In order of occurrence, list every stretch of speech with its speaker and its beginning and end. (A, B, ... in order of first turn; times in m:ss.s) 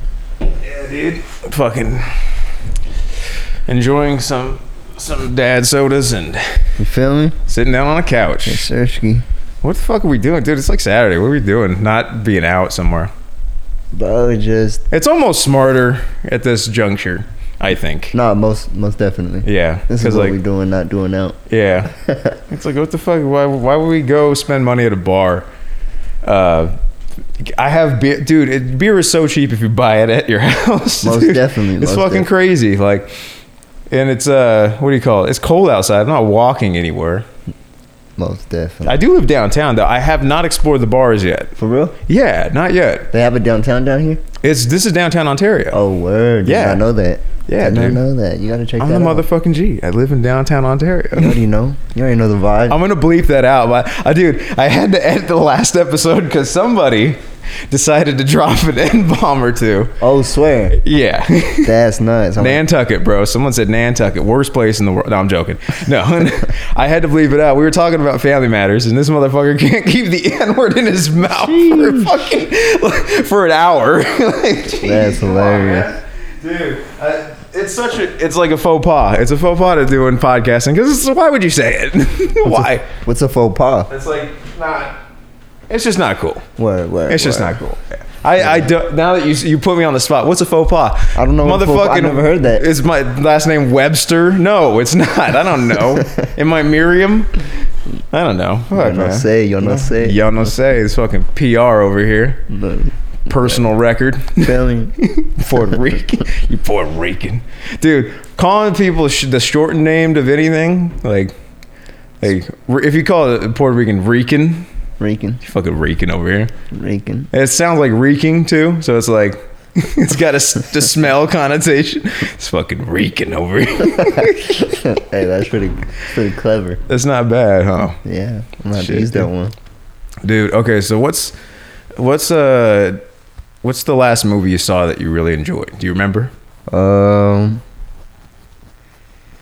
0:00.6-0:02.4 A
0:03.7-0:06.6 A
0:06.8-0:07.4 B
0:07.5-0:08.7 A
0:08.4-0:09.2 B
0:09.6-0:13.1 A
0:13.9-0:14.8 B
0:14.9-0:18.2 A
0:18.1-0:21.4 B
0:19.4-0:20.4 A
0:21.5-0:21.9 A
0:21.9-0:22.4 B
0:22.5-0:25.5 A
0:26.2-0:26.7 A
0:27.4-0:33.1 A
0:31.0-0:32.3 B
0:33.9-0:37.3 A
0:38.2-0:39.0 B
0:38.9-0:41.5 A
0:41.6-0:42.0 B
0:42.1-0:43.1 A
0:43.1-0:44.2 B
0:44.4-0:45.8 A
0:45.7-0:49.3 B
0:46.4-0:46.8 A
0:47.5-0:48.0 A
0:48.8-0:51.4 A
0:51.1-0:52.8 B
0:52.7-0:57.2 A
0:57.7-0:59.9 A
1:00.0-1:00.8 B
1:00.8-1:01.8 A
1:01.6-1:02.6 B
1:02.4-1:22.9 A
1:11.3-1:12.2 B
1:14.7-1:15.9 B
1:22.4-1:23.9 B
1:23.9-1:25.0 A
1:25.7-1:26.4 A
1:26.6-1:27.6 B
1:27.1-1:37.5 A
1:28.4-1:28.7 B
1:31.2-1:32.7 B
1:38.1-1:42.4 A
1:38.7-1:40.4 B
1:42.5-1:42.9 B
1:43.3-1:51.3 A
1:44.4-1:45.0 B
1:52.2-1:54.7 A
1:55.0-1:55.4 B
1:55.4-1:56.5 A
1:56.7-1:57.3 B
1:57.3-2:04.6 A
2:04.2-2:06.8 B
2:06.9-2:08.0 A
2:08.0-2:09.5 B
2:08.7-2:09.3 A
2:10.2-2:11.4 A
2:12.0-2:13.0 A
2:13.6-2:16.3 A
2:16.7-2:17.6 B